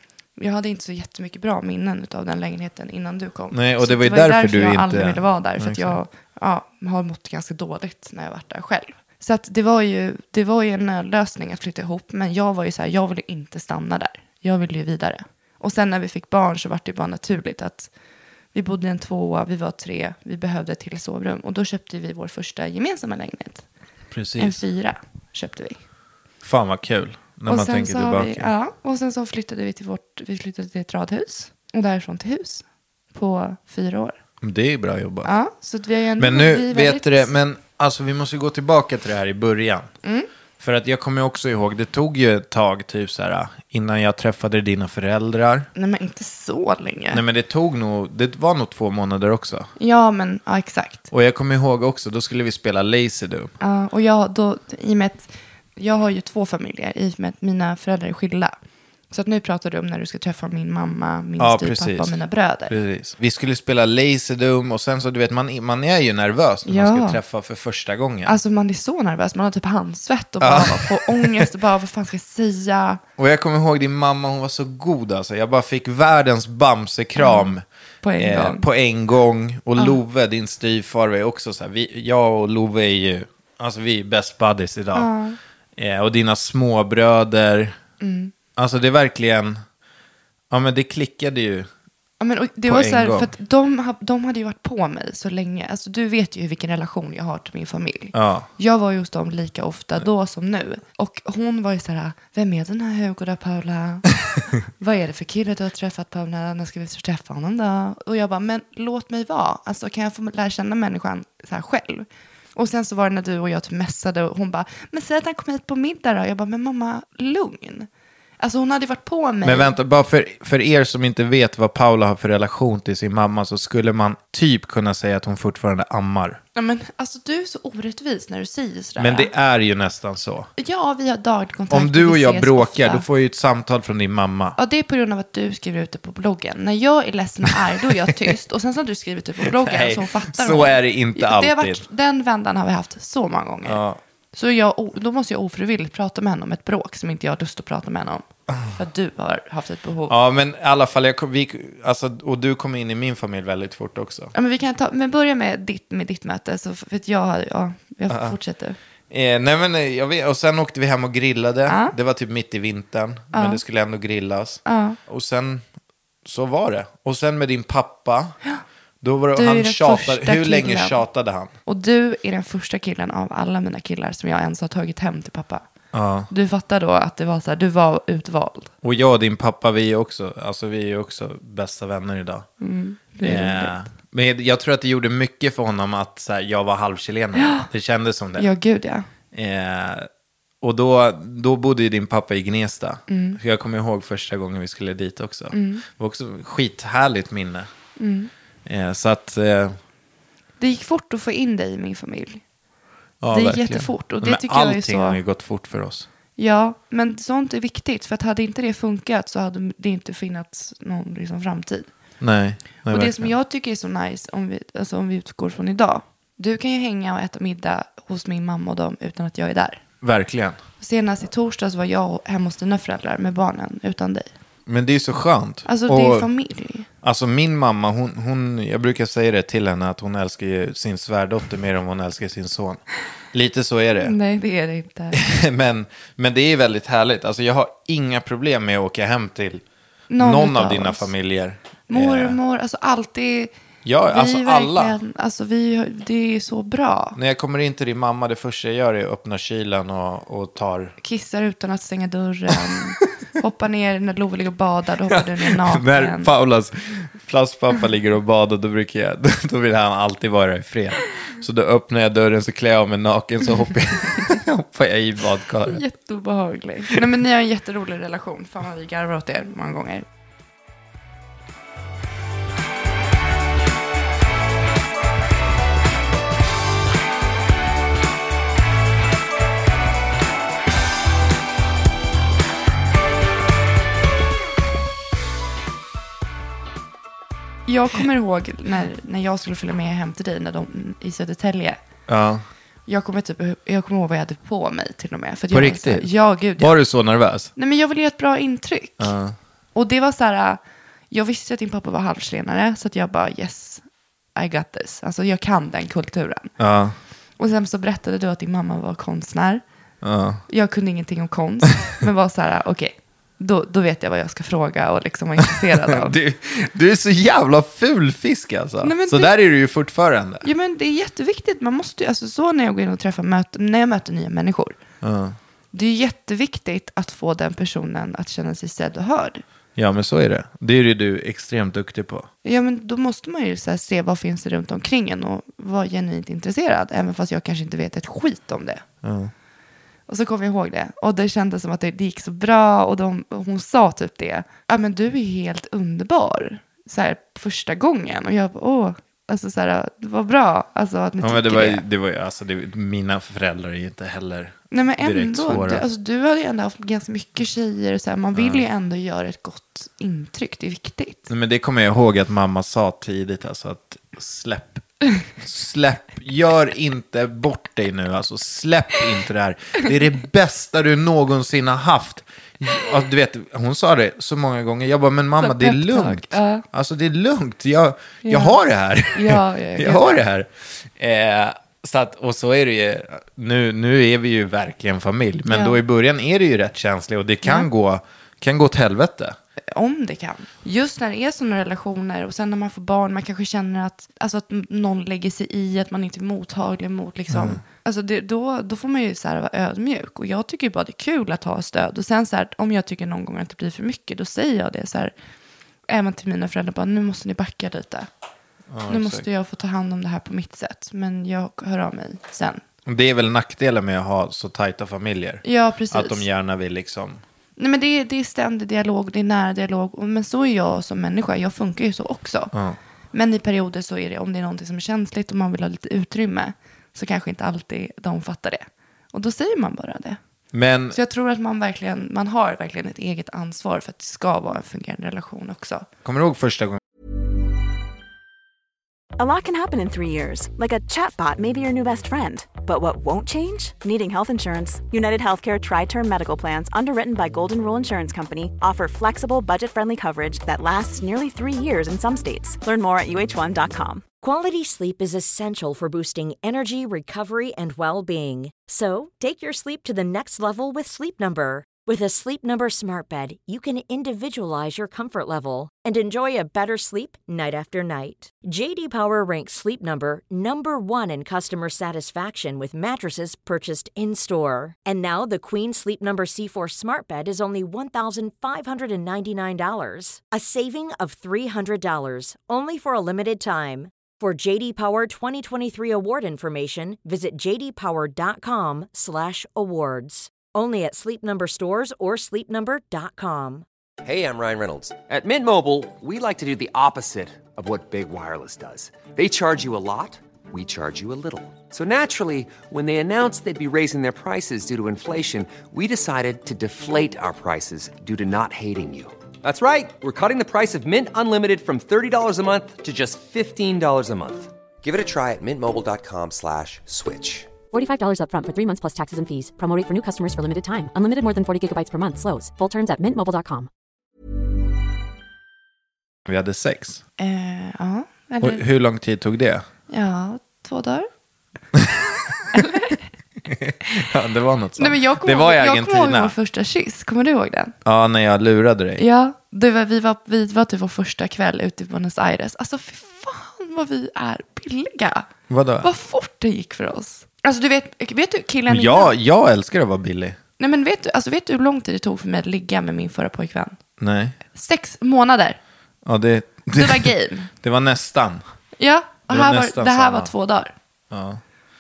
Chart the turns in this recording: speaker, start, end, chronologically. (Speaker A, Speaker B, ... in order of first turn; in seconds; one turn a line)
Speaker A: 0.4-17.9
Speaker B: 3.5-6.0
Speaker A: 18.5-23.6
Speaker B: 24.1-24.6
Speaker A: 24.4-25.8
Speaker B: 26.4-28.5
Speaker A: 27.5-34.2
Speaker B: 34.4-35.3
Speaker A: 35.2-37.3
Speaker B: 36.2-39.9
Speaker A: 40.0-40.3
Speaker B: 40.6-45.7
Speaker A: 45.8-47.2
Speaker B: 47.1-49.7
Speaker A: 49.8-51.1
Speaker B: 51.1-53.5
Speaker A: 53.6-58.5
Speaker A: 59.1-62.7
Speaker B: 61.4-68.4
Speaker A: 66.7-67.2
Speaker A: 68.2-73.0
Speaker B: 70.4-71.5
Speaker B: 73.2-77.6
Speaker A: 77.2-78.7
Speaker B: 78.2-85.1
Speaker A: 85.0-85.4
Speaker B: 85.8-87.8
Speaker A: 88.0-88.3
Speaker B: 88.6-89.6
Speaker B: 90.5-91.7
Speaker A: 92.2-117.9
Speaker B: 92.7-93.3
Speaker B: 98.1-98.5
Speaker A: 118.4-119.8
Speaker B: 119.4-126.4
Speaker A: 126.5-129.3
Speaker B: 129.0-130.5
Speaker A: 130.6-133.1
Speaker B: 131.7-134.6
Speaker A: 134.6-143.8
Speaker B: 137.5-138.3
Speaker B: 139.4-141.8
Speaker B: 143.7-144.0
Speaker A: 144.3-150.2
Speaker B: 150.1-154.3
Speaker A: 154.3-158.8
Speaker B: 158.1-158.4
Speaker B: 159.1-165.6
Speaker A: 161.7-161.9
Speaker A: 163.3-163.6
Speaker A: 164.7-165.0
Speaker B: 166.2-168.4
Speaker B: 169.0-171.5
Speaker A: 169.3-171.0
Speaker A: 171.7-175.6
Speaker B: 175.9-176.3
Speaker A: 176.3-178.7
Speaker B: 178.8-182.5
Speaker A: 182.6-183.8
Speaker B: 183.2-188.5
Speaker A: 187.3-187.7
Speaker A: 188.4-189.1
Speaker B: 189.3-190.1
Speaker B: 190.6-197.7
Speaker A: 193.1-193.4
Speaker A: 195.5-195.8
Speaker A: 198.0-198.3
Speaker B: 198.7-199.8
Speaker A: 200.6-202.4
Speaker B: 203.2-206.1
Speaker A: 203.3-205.2
Speaker A: 206.4-211.9
Speaker B: 212.2-213.3
Speaker A: 212.9-219.8
Speaker B: 220.0-220.6
Speaker A: 220.8-224.3
Speaker B: 224.7-226.3
Speaker A: 225.7-226.9
Speaker B: 227.0-232.8
Speaker B: 233.3-234.2
Speaker A: 234.0-235.2
Speaker B: 235.1-239.6
Speaker A: 240.1-241.1
Speaker B: 240.2-242.4
Speaker A: 241.9-243.5
Speaker B: 243.8-245.0
Speaker A: 244.1-247.2
Speaker B: 247.2-251.0
Speaker A: 251.0-256.3
Speaker B: 255.1-265.8
Speaker A: 265.7-270.1
Speaker A: 287.7-291.8
Speaker B: 292.1-292.4
Speaker A: 292.9-296.8
Speaker B: 295.5-297.5
Speaker A: 297.6-299.1
Speaker B: 299.0-299.4
Speaker A: 299.8-300.6
Speaker A: 301.1-303.8
Speaker A: 304.4-306.5
Speaker B: 306.6-307.0
Speaker A: 307.4-309.6
Speaker B: 310.0-310.4
Speaker A: 310.5-316.1
Speaker B: 315.6-320.5
Speaker A: 318.8-319.3
Speaker A: 320.4-324.8
Speaker B: 325.0-325.4
Speaker A: 325.7-329.4
Speaker B: 329.8-332.3
Speaker A: 332.4-338.8
Speaker B: 339.0-339.3
Speaker A: 340.1-351.8
Speaker B: 351.2-355.9
Speaker A: 354.7-361.3
Speaker B: 358.4-358.6
Speaker B: 361.3-364.9
Speaker B: 365.4-389.4
Speaker A: 375.4-376.6
Speaker A: 378.2-378.6
Speaker A: 379.1-380.2
Speaker A: 385.5-385.8
Speaker A: 387.4-387.7
Speaker A: 389.7-405.1
Speaker B: 397.3-397.6
Speaker A: 405.9-408.1
Speaker B: 408.7-409.3
Speaker A: 408.9-412.6
Speaker B: 412.9-417.2
Speaker A: 415.4-416.2
Speaker A: 417.6-422.5
Speaker B: 422.5-422.8
Speaker A: 423.1-430.2
Speaker B: 430.5-431.0
Speaker A: 430.9-435.9
Speaker B: 436.1-436.8
Speaker C: 439.2-454.0
Speaker D: 454.2-493.7
Speaker E: 494.0-517.5
Speaker F: 517.7-523.7
Speaker B: 526.3-527.0
Speaker A: 527.2-528.6
Speaker B: 528.4-529.6
Speaker A: 529.9-531.1
Speaker B: 531.8-532.0
Speaker A: 532.5-533.0
Speaker B: 533.4-536.4
Speaker A: 534.8-537.7
Speaker B: 537.9-539.0
Speaker A: 539.0-545.3
Speaker B: 545.5-545.9
Speaker A: 545.8-549.1
Speaker B: 548.7-550.4
Speaker A: 550.6-553.8
Speaker B: 554.0-554.4
Speaker A: 554.5-555.6
Speaker B: 556.0-558.4
Speaker A: 556.7-557.5
Speaker A: 558.8-560.7
Speaker B: 559.3-560.3
Speaker B: 561.1-561.4